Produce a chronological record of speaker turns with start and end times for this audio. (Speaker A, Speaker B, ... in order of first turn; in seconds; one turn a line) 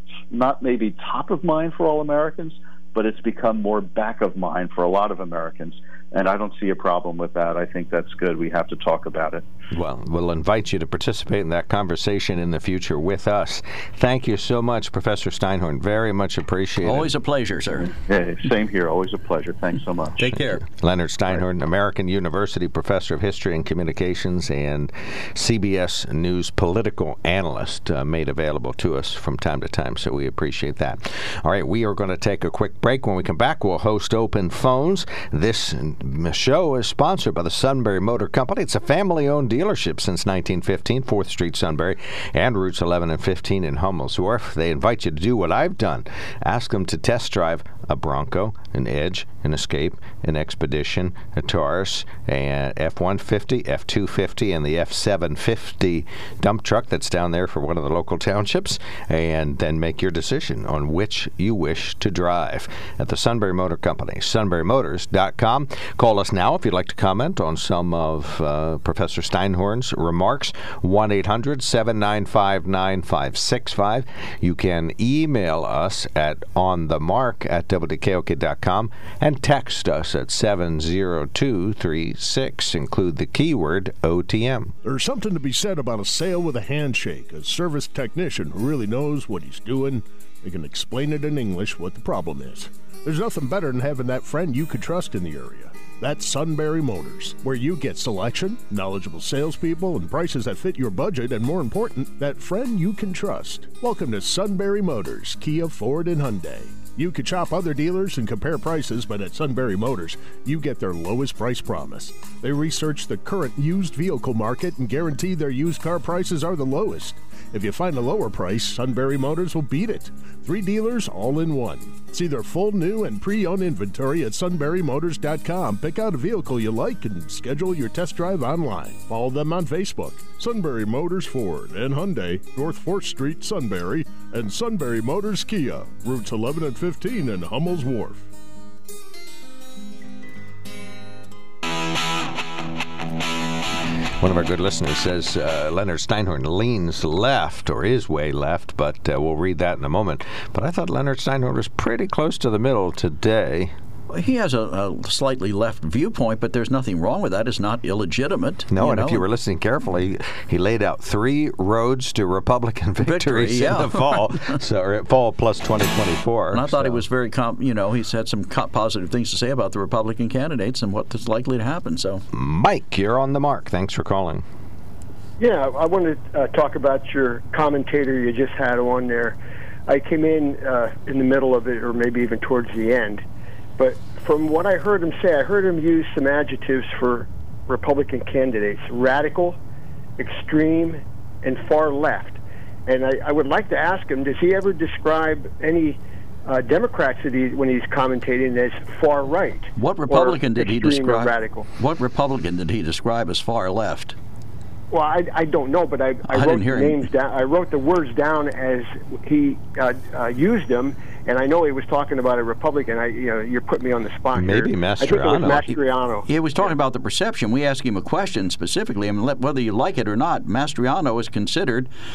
Speaker A: 0.3-9.4
Speaker B: 9.7-17.1
Speaker C: 16.8-17.9
Speaker A: 18.1-20.2
Speaker C: 20.2-20.6
Speaker B: 20.4-84.7
Speaker D: 84.8-138.3
Speaker B: 144.2-153.7
Speaker C: 154.1-159.2
Speaker B: 158.7-167.0
Speaker C: 163.0-164.6
Speaker C: 166.5-172.2
Speaker B: 172.3-174.4
Speaker E: 175.4-183.2
Speaker E: 183.8-189.6
Speaker E: 190.2-201.7
Speaker C: 199.8-204.2
Speaker E: 204.9-216.7
Speaker C: 206.3-207.1
Speaker B: 214.3-215.8
Speaker C: 216.3-221.9